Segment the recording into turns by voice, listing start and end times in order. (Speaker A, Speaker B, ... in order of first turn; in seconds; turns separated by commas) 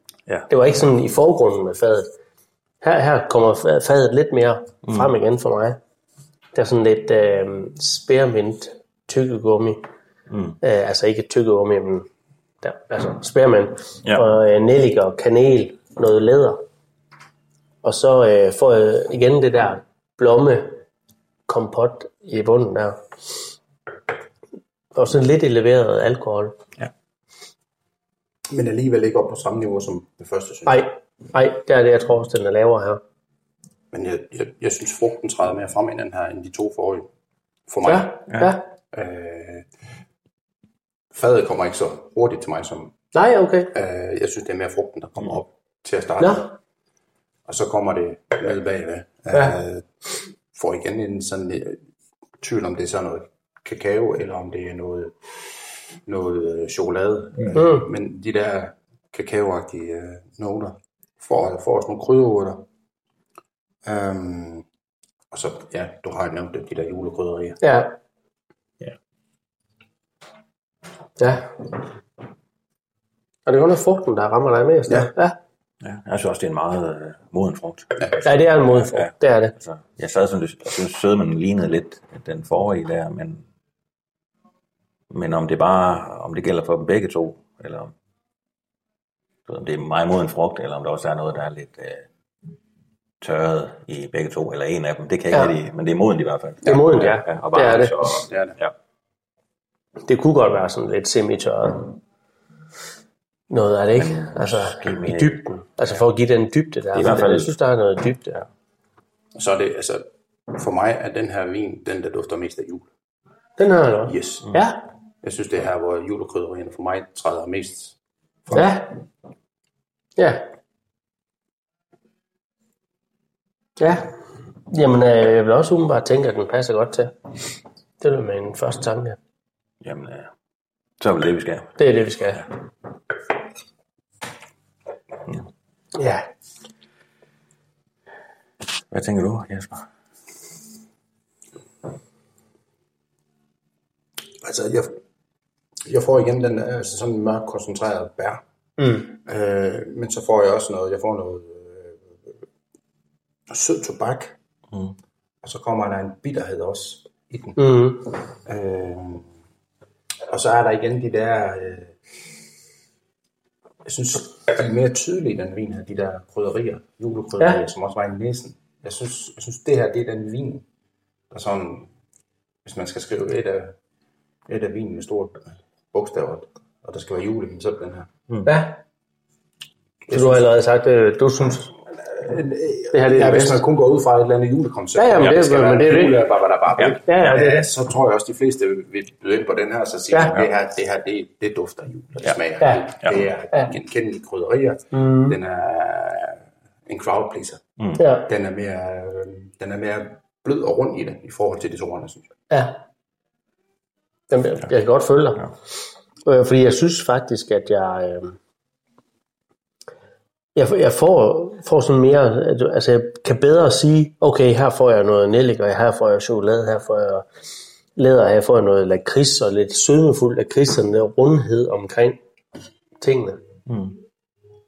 Speaker A: 0.5-2.1, Speaker A: 2.8-5.8, Speaker A: 6.5-9.8, Speaker B: 10.3-10.6, Speaker A: 10.6-12.1, Speaker A: 12.6-16.6, Speaker A: 17.8-20.8, Speaker A: 21.5-23.0, Speaker A: 24.9-26.6, Speaker C: 28.5-30.9, Speaker A: 30.6-33.0, Speaker C: 33.9-37.1, Speaker C: 37.7-38.2, Speaker A: 37.8-38.6, Speaker B: 38.3-38.5, Speaker C: 38.9-39.7, Speaker C: 41.1-42.9, Speaker A: 43.1-43.7, Speaker C: 43.7-46.5, Speaker A: 46.2-46.5, Speaker C: 47.5-49.9, Speaker C: 50.5-51.8, Speaker C: 52.4-55.2, Speaker C: 56.0-62.6, Speaker A: 57.5-57.9, Speaker C: 63.8-64.7, Speaker C: 65.3-67.6, Speaker A: 67.6-68.0, Speaker A: 71.2-71.5, Speaker A: 73.5-75.4, Speaker B: 75.8-83.4, Speaker A: 78.2-79.5, Speaker B: 85.1-87.9, Speaker B: 89.5-92.0, Speaker B: 93.2-98.7, Speaker A: 96.6-98.0, Speaker C: 98.2-98.5, Speaker A: 100.0-102.0, Speaker A: 103.5-108.5, Speaker B: 104.0-105.4, Speaker B: 106.9-107.5, Speaker C: 109.3-112.9, Speaker A: 113.6-114.8, Speaker C: 114.0-114.5, Speaker C: 115.2-118.0, Speaker A: 118.5-118.9, Speaker A: 120.2-120.5, Speaker A: 123.8-124.1, Speaker A: 124.7-127.1, Speaker A: 128.0-129.2, Speaker B: 129.8-130.3, Speaker B: 131.0-131.8, Speaker A: 131.8-132.4, Speaker A: 135.9-136.2, Speaker B: 138.9-139.9, Speaker C: 144.4-145.0, Speaker C: 145.8-148.4, Speaker A: 148.8-149.1, Speaker C: 149.2-152.1, Speaker C: 153.5-154.3, Speaker C: 155.4-157.6, Speaker A: 157.6-158.1, Speaker C: 158.4-159.3, Speaker C: 160.3-161.9, Speaker C: 163.8-170.6, Speaker C: 171.3-171.9, Speaker C: 172.6-173.7, Speaker C: 174.5-178.1, Speaker A: 178.4-178.8, Speaker A: 180.1-181.7, Speaker C: 180.1-180.4, Speaker C: 182.1-197.6, Speaker A: 182.9-183.6, Speaker A: 184.9-186.3, Speaker A: 186.9-187.7, Speaker A: 192.6-192.8, Speaker A: 194.9-195.4, Speaker A: 198.0-198.2, Speaker C: 198.2-202.3, Speaker A: 202.5-202.8, Speaker A: 204.3-205.5, Speaker A: 206.2-208.3, Speaker A: 210.5-217.2, Speaker A: 218.0-222.2, Speaker A: 223.0-223.4, Speaker B: 223.7-224.0